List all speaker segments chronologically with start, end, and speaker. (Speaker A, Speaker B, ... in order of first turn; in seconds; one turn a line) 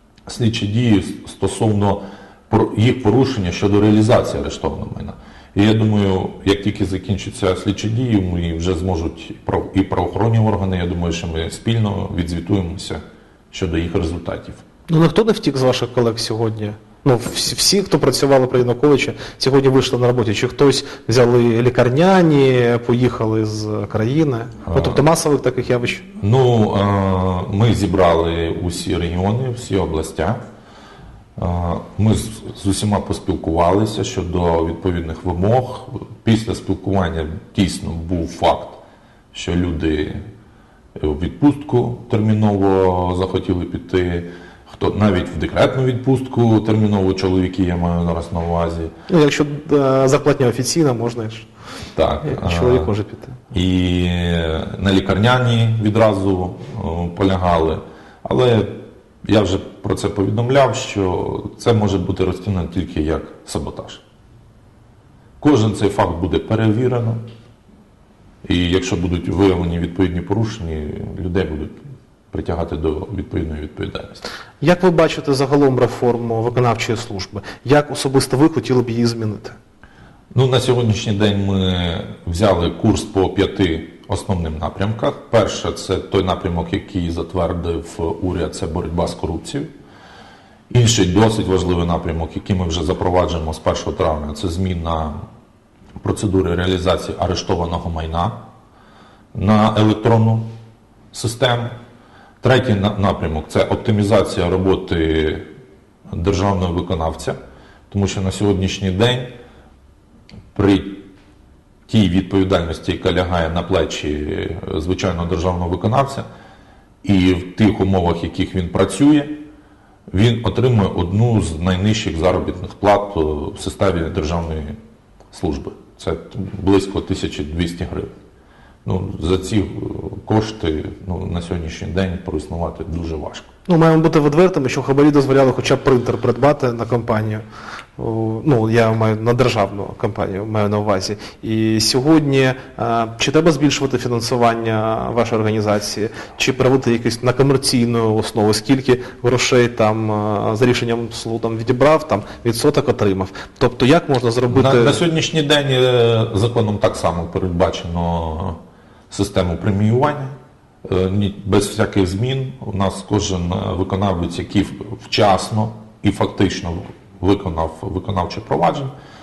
Speaker A: 0.3-14.6
Speaker B: 14.9-26.0
Speaker A: 24.7-25.0
Speaker A: 26.2-30.4
Speaker A: 31.4-38.8
Speaker A: 39.3-40.2
Speaker A: 41.0-48.9
Speaker B: 49.1-51.5
Speaker A: 51.9-52.9
Speaker B: 52.2-53.4
Speaker A: 53.5-58.7
Speaker A: 59.2-64.0
Speaker A: 65.4-67.2
Speaker A: 68.4-71.8
Speaker A: 72.3-74.2
Speaker B: 74.6-79.5
Speaker A: 80.3-89.7
Speaker A: 90.7-95.1
Speaker A: 96.0-98.4
Speaker A: 99.3-100.5
Speaker A: 101.1-101.7
Speaker A: 102.4-105.4
Speaker A: 106.1-107.3
Speaker A: 107.9-109.3
Speaker A: 110.5-111.1
Speaker A: 111.9-116.2
Speaker A: 117.0-119.4
Speaker A: 120.1-124.8
Speaker A: 125.3-128.1
Speaker A: 128.8-133.5
Speaker B: 133.7-137.4
Speaker B: 138.0-155.0
Speaker A: 154.5-158.6
Speaker A: 159.1-168.9